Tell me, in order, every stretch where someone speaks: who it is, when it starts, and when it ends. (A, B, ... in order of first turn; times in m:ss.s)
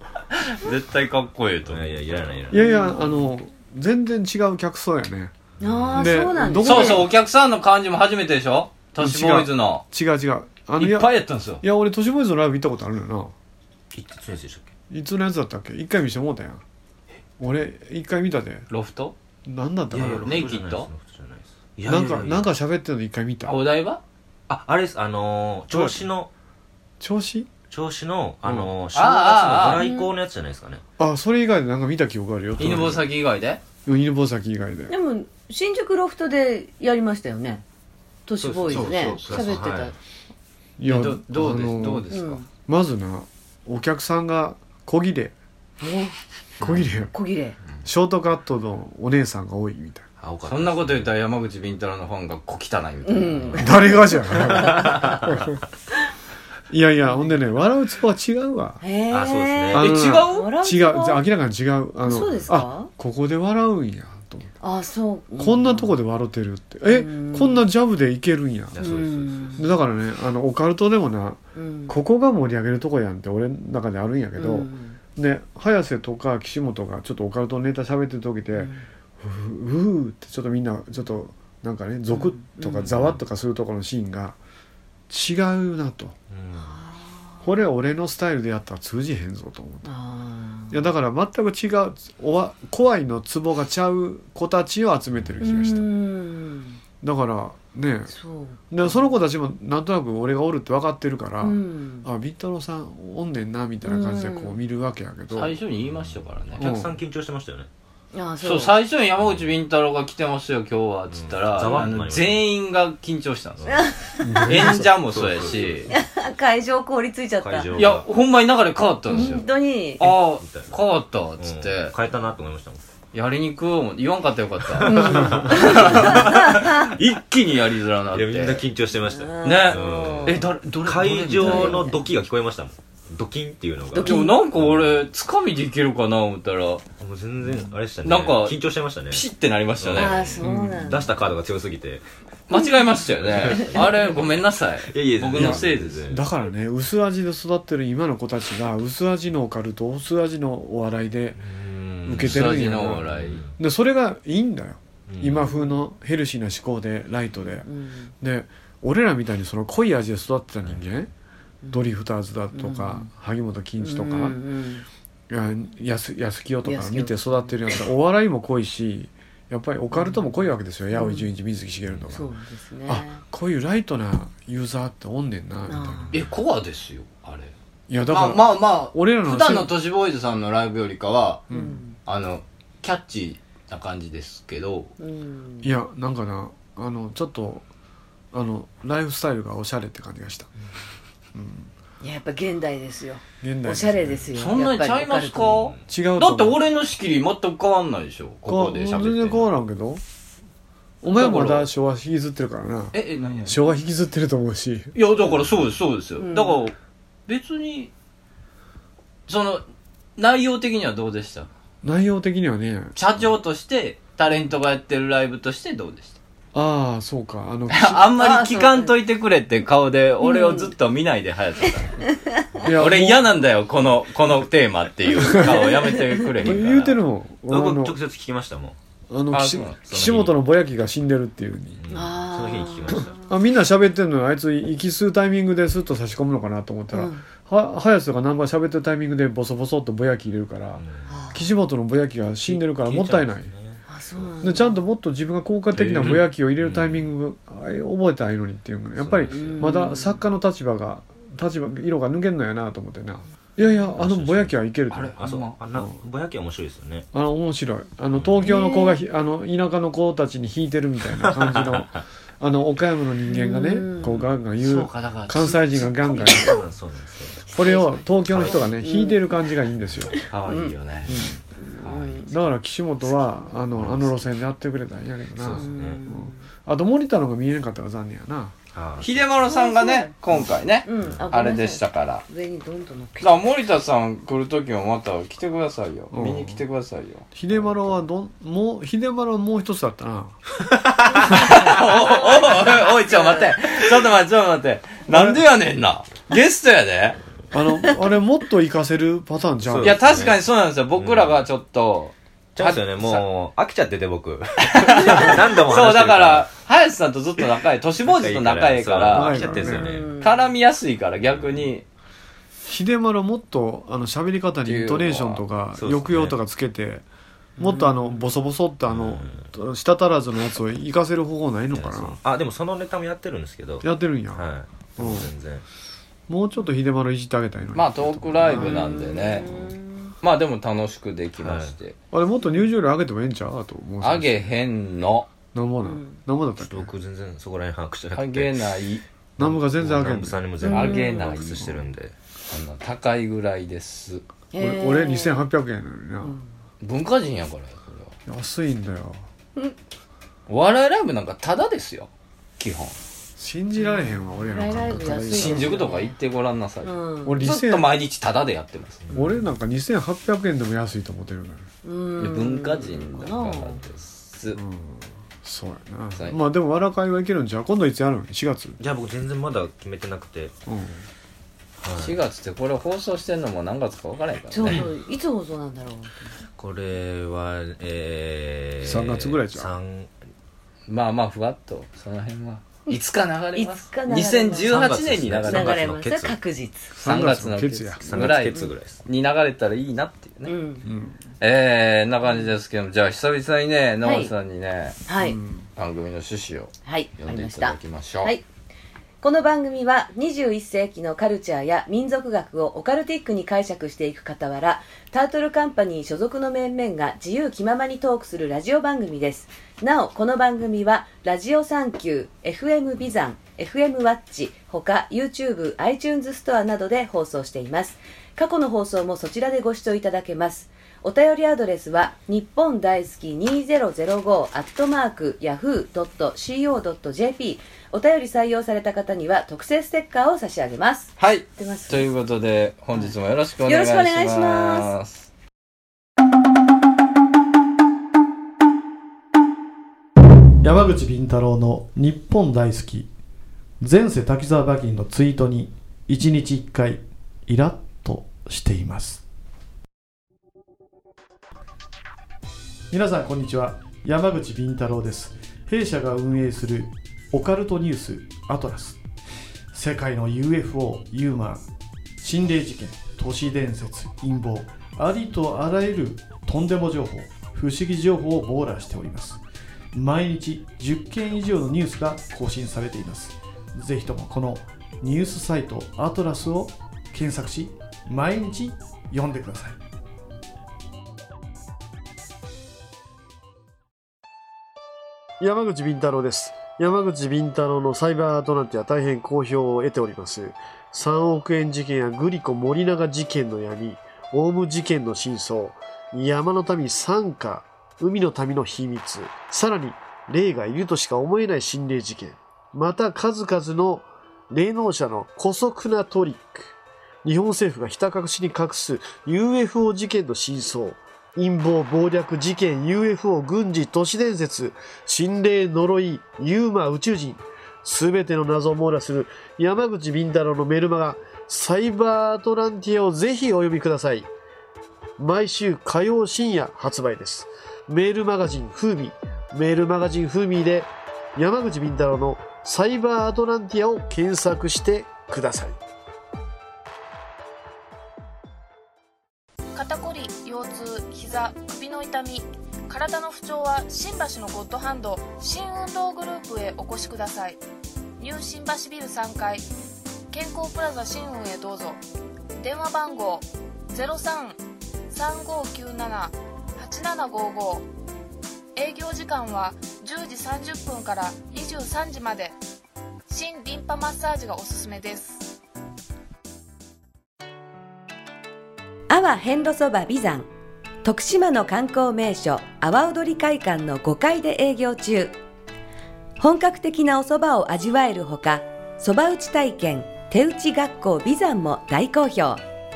0:00.5-0:02.4 A
0:01.7-0:02.6 B
0:02.5-0:05.3 C
0:02.5-0:03.0 D
0:05.6-0:06.2 B
0:05.6-0:07.0 D
0:05.9-0:07.1 C
0:06.6-0:09.8 A
0:09.0-0:13.3 C
0:10.8-0:11.6 A
0:13.9-0:14.7 B
0:14.9-0:16.6 C
0:17.4-0:18.6 C
0:18.7-0:19.1 A
0:19.4-0:20.5 C
0:19.9-0:22.5 B
0:20.0-0:20.9 A
0:21.8-0:23.6 C
0:23.4-0:24.0 A
0:24.5-0:26.3 B
0:25.7-0:26.0 C
0:27.0-0:27.5 C
0:27.7-0:30.8 B
0:28.4-0:28.7 C
0:28.9-0:29.8 A
0:29.6-0:30.1 D
0:31.0-0:33.1 C
0:32.6-0:33.6 A
0:33.8-0:34.9 C
0:34.9-0:37.6 D
0:38.3-0:39.9 D
0:38.4-0:39.9 B
0:38.7-0:39.6 A
0:40.8-0:45.3 C
0:40.9-0:42.4 A
0:42.1-0:42.4 D
0:45.8-0:46.1 D
0:46.6-0:47.1 C
0:46.6-0:46.9 B
0:47.1-0:47.5 D
0:47.8-0:50.0 C
0:50.2-0:51.1 B
0:50.4-0:53.9 A
0:53.1-0:53.8 D
0:53.6-0:55.6 C
0:54.4-0:55.2 D
0:56.7-0:58.8 C
0:57.0-0:57.3 D
0:58.8-1:01.2 D
0:59.1-1:00.1 B
0:59.7-1:04.5 C
0:59.8-1:00.5 A
1:02.0-1:02.9 D
1:04.6-1:05.9 D
1:05.4-1:08.9 C
1:06.8-1:07.6 D
1:08.7-1:09.6 B
1:08.8-1:09.6 D
1:09.6-1:24.4 C
1:11.6-1:11.9 D
1:14.4-1:15.0 D
1:18.5-1:18.8 D
1:22.1-1:22.8 D
1:22.8-1:23.2 B
1:25.1-1:26.1 C
1:26.3-1:26.7 B
1:26.6-1:27.4 D
1:27.4-1:29.9 C
1:29.8-1:30.8 D
1:30.7-1:35.9 C
1:35.1-1:35.4 B
1:35.4-1:36.8 D
1:37.0-1:38.1 C
1:38.1-1:39.1 D
1:38.7-1:45.6 C
1:41.4-1:42.1 D
1:43.8-1:44.6 D
1:45.3-1:46.7 A
1:45.8-1:47.7 B
1:46.6-1:47.0 C
1:48.1-1:48.7 D
1:48.4-1:53.8 A
1:49.2-1:49.5 B
1:51.1-1:52.4 B
1:53.7-1:54.2 D
1:54.2-1:54.9 C
1:54.4-1:55.9 A
1:54.4-1:55.9 B
1:55.9-1:57.7 D
1:57.4-1:58.1 B
1:57.7-1:59.5 A
1:59.1-2:00.0 D
2:00.0-2:01.9 A
2:00.0-2:00.8 B
2:01.4-2:02.8 B
2:03.1-2:08.6 A
2:04.7-2:06.8 B
2:04.9-2:06.9 D
2:08.1-2:15.0 B
2:09.0-2:10.5 D
2:09.4-2:11.9 A
2:11.4-2:12.1 D
2:13.9-2:14.3 D
2:14.0-2:16.8 A
2:17.0-2:19.3 B
2:18.0-2:20.3 A
2:19.8-2:22.0 B
2:20.0-2:21.1 D
2:20.4-2:21.0 C
2:22.5-2:26.0 A
2:23.2-2:24.1 B
2:24.9-2:26.2 B
2:25.3-2:31.4 C
2:31.4-2:33.5 B
2:32.0-2:37.7 C
2:32.2-2:33.4 A
2:35.1-2:35.5 B
2:37.6-2:38.1 D
2:38.2-2:41.1 C
2:41.7-2:44.4 C
2:42.5-2:43.1 D
2:43.8-2:44.8 D
2:45.3-2:52.3 C
2:46.6-2:47.6 D
2:49.9-2:50.3 D
2:50.9-2:51.3 D
2:52.1-2:53.2 D
2:52.9-2:56.2 C
2:55.7-2:56.1 D
2:56.1-3:01.5 A
2:57.9-2:59.7 C
3:01.5-3:01.8 C
3:01.5-3:02.0 D
3:02.0-3:04.9 A
3:05.0-3:05.7 D
3:05.6-3:07.6 C
3:08.3-3:10.5 C
3:11.3-3:11.7 C
3:12.0-3:15.7 D
3:13.4-3:14.3 C
3:14.3-3:19.4 A
3:15.9-3:16.6 C
3:18.5-3:20.0 C
3:21.0-3:24.9 C
3:21.0-3:21.7 A
3:22.9-3:23.6 A
3:24.9-3:26.7 A
3:26.2-3:26.6 D
3:27.3-3:27.9 A
3:29.3-3:29.6 A
3:30.2-3:31.5 A
3:31.8-3:32.9 C
3:32.9-3:36.2 A
3:36.5-3:38.1 C
3:37.7-3:42.0 A
3:38.2-3:38.9 D
3:40.2-3:40.7 D
3:42.6-3:43.3 C
3:42.8-3:47.0 A
3:45.2-3:45.7 C
3:46.4-3:48.0 C
3:47.5-3:48.8 B
3:49.1-3:51.8 C
3:49.3-3:49.8 A
3:49.8-3:50.4 B
3:51.8-3:53.2 B
3:51.9-3:53.1 D
3:53.0-4:03.5 C
3:56.9-3:57.2 D
4:00.8-4:01.1 B
4:01.1-4:01.5 D
4:02.4-4:04.3 B
4:03.9-4:04.8 D
4:04.4-4:15.2 C
4:05.8-4:06.2 A
4:05.8-4:07.0 B
4:09.0-4:09.8 B
4:09.3-4:10.2 D
4:14.0-4:14.6 B
4:14.9-4:15.6 A
4:15.2-4:17.1 B
4:17.1-4:26.6 C
4:18.1-4:18.5 B
4:18.4-4:19.0 D
4:21.2-4:21.8 B
4:23.3-4:24.3 D
4:24.6-4:25.9 A
4:26.0-4:27.5 B
4:26.3-4:26.6 D
4:27.5-4:29.2 D
4:27.5-4:30.1 C
4:28.3-4:28.6 B
4:29.9-4:31.3 B
4:30.1-4:30.7 D
4:30.3-4:31.2 A
4:31.1-4:31.4 C
4:31.7-4:32.3 D
4:31.8-4:32.2 A
4:32.3-4:38.5 C
4:33.7-4:34.1 B
4:35.4-4:36.1 B
4:35.5-4:36.4 D
4:38.7-4:39.2 B
4:39.0-4:42.2 A
4:39.5-4:40.1 D
4:40.8-4:43.4 D
4:43.2-4:47.2 A
4:46.1-4:46.6 C
4:47.3-4:50.4 C
4:47.5-4:48.0 B
4:51.0-4:57.2 A
4:51.3-4:51.7 C
4:52.7-4:53.6 D
4:55.1-4:55.4 C
4:57.5-5:00.0 C
4:59.6-5:00.4 B
4:59.8-5:03.2 A
5:01.0-5:01.4 B
5:02.6-5:06.5 B
5:04.7-5:11.8 A
5:08.0-5:10.2 B
5:09.1-5:09.9 C
5:09.7-5:10.5 D
5:12.6-5:17.0 C
5:14.6-5:15.4 A
5:15.7-5:16.4 B
5:17.6-5:18.3 D
5:17.6-5:22.2 C
5:18.9-5:19.4 B
5:21.7-5:25.6 B
5:23.8-5:24.4 C
5:25.0-5:25.3 C
5:26.3-5:29.7 C
5:27.7-5:29.5 A
5:28.5-5:30.1 D
5:30.2-5:31.9 A
5:31.4-5:31.8 B
5:32.1-5:34.5 C
5:34.0-5:35.3 A
5:35.5-5:36.9 C
5:35.8-5:36.2 D
5:36.6-5:38.6 B
5:38.1-5:39.0 A
5:39.4-5:40.4 C
5:39.4-5:42.1 B
5:40.6-5:41.2 D
5:40.7-5:41.8 A
5:42.5-5:44.2 A
5:44.5-5:45.4 D
5:44.6-5:46.3 C
5:46.2-5:46.5 D
5:46.8-5:48.1 A
5:48.2-5:49.2 C
5:50.5-5:53.0 A
5:53.4-5:55.8 C
5:53.8-5:56.1 D
5:55.3-5:59.0 A
5:56.8-5:57.4 D
5:57.2-5:57.9 C
5:59.1-5:59.4 D
5:59.1-6:01.6 C
6:01.8-6:03.8 D
6:02.2-6:04.6 A
6:04.5-6:08.8 C
6:08.8-6:10.5 B
6:10.7-6:11.0 C
6:11.8-6:12.2 B
6:12.0-6:14.9 A
6:14.5-6:16.3 D
6:16.6-6:20.1 B
6:18.8-6:19.7 C
6:20.9-6:25.8 A
6:23.5-6:26.9 D
6:24.7-6:26.4 B
6:26.9-6:28.4 C
6:27.0-6:30.5 A
6:28.0-6:29.0 B
6:30.4-6:30.8 D
6:30.8-6:31.2 C
6:31.4-6:35.0 A
6:34.0-6:34.3 D
6:35.1-6:35.4 D
6:35.2-6:35.6 C
6:35.8-6:38.3 A
6:36.8-6:38.4 D
6:39.2-7:12.1 D
7:11.2-7:15.3 A
7:13.6-7:14.9 D
7:20.6-7:23.1 E
7:23.8-7:29.2 E
7:32.9-7:39.0 E
7:39.7-7:41.6 E
7:42.2-7:49.4 E
7:49.9-7:59.8 E
8:05.4-8:26.7 F
8:27.2-8:44.3 F
8:45.2-8:55.8 F
8:59.7-9:07.6 G
9:08.2-9:09.6 G
9:10.3-9:12.0 G
9:12.6-9:17.9 G
9:18.7-9:22.6 G
9:23.3-9:25.5 G
9:29.1-9:30.5 D
9:31.0-9:35.3 D
9:36.4-9:42.6 D